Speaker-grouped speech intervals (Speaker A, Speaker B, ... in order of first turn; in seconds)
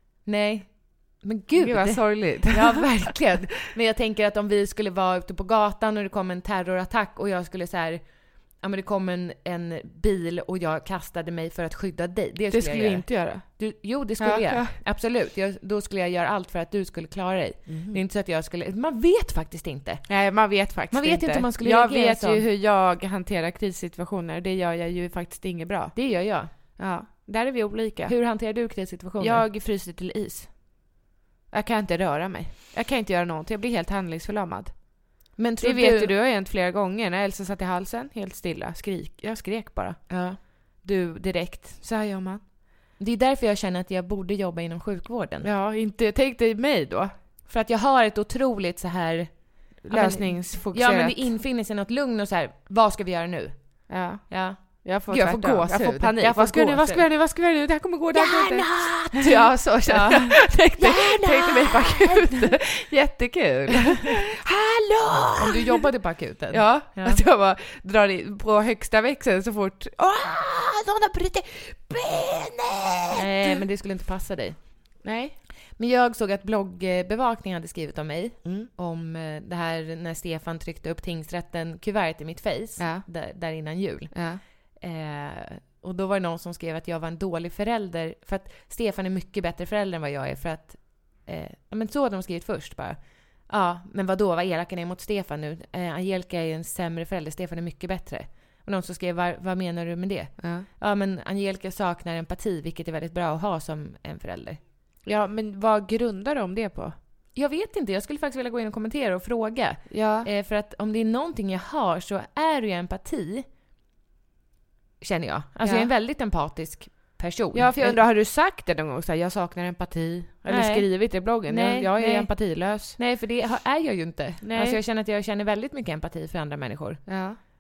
Speaker A: 0.2-20.2, 20.9-22.4, 25.9-26.5, 28.1-29.5, 35.4-36.1, 40.1-40.4, 43.0-45.5, 47.5-57.1, 58.1-62.6, 65.4-67.2, 73.1-74.6, 75.8-104.6, 107.3-113.5, 115.0-118.0, 120.5-127.1
Speaker B: 1.6-3.1, 12.5-13.5, 14.2-14.8, 17.7-18.0, 20.1-26.0, 26.5-28.2, 29.2-30.7, 31.5-35.0, 35.6-42.4, 45.4-47.1, 49.9-51.3, 53.9-65.9, 66.5-73.6, 75.0-75.4, 78.4-78.7, 82.8-83.0, 84.1-84.4, 100.4-100.7, 105.0-107.0, 109.9-110.3, 115.6-115.9, 117.5-123.0, 124.4-124.8, 127.1-127.4